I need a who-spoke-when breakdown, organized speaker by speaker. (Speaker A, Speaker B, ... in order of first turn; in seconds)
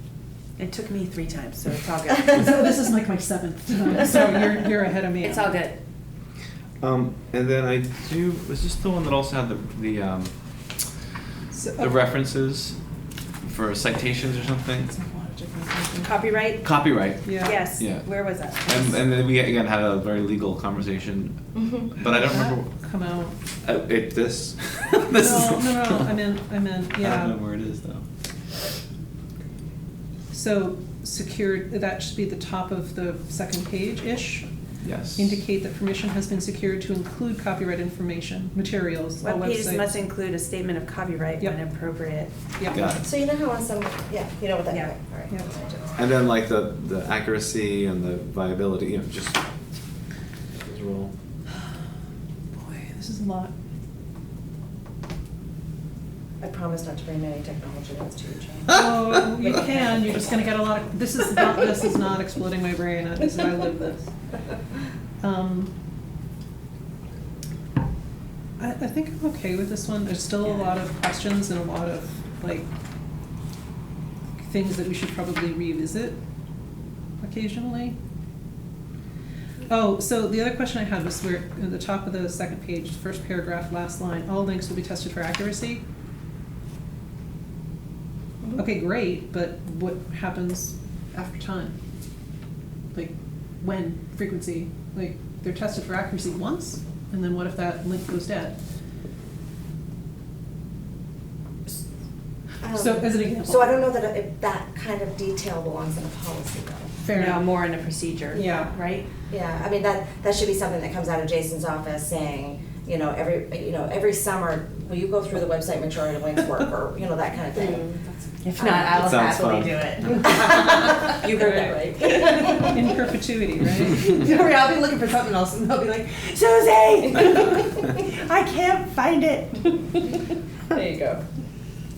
Speaker A: 0.6-2.3, 5.2-5.8, 16.0-16.7, 17.2-18.9, 39.2-42.3, 107.1-109.1, 118.4-122.8, 124.0-130.2
Speaker B: 2.3-5.6, 11.5-11.9, 14.9-16.1, 17.2-17.8, 22.0-23.3, 25.0-27.4, 30.3-34.5, 35.1-40.0, 42.6-43.0, 52.5-53.5, 58.7-64.1, 65.2-65.7, 68.6-72.7, 74.4-76.2, 77.2-78.0, 79.7-85.8, 88.5-91.8, 92.9-98.5, 102.7-103.9, 107.0-107.5, 108.3-108.7, 122.4-124.1
Speaker C: 6.8-10.3, 11.8-12.8, 13.4-14.9, 16.6-22.7, 23.6-26.1, 27.0-28.0, 34.8-35.3, 42.7-43.0, 46.0-49.4, 50.5-51.1, 118.9-119.8
Speaker D: 21.5-21.9, 42.8-46.0, 56.4-60.2, 102.6-106.9, 109.3-119.2, 120.2-122.9, 124.0-125.2, 130.7-131.2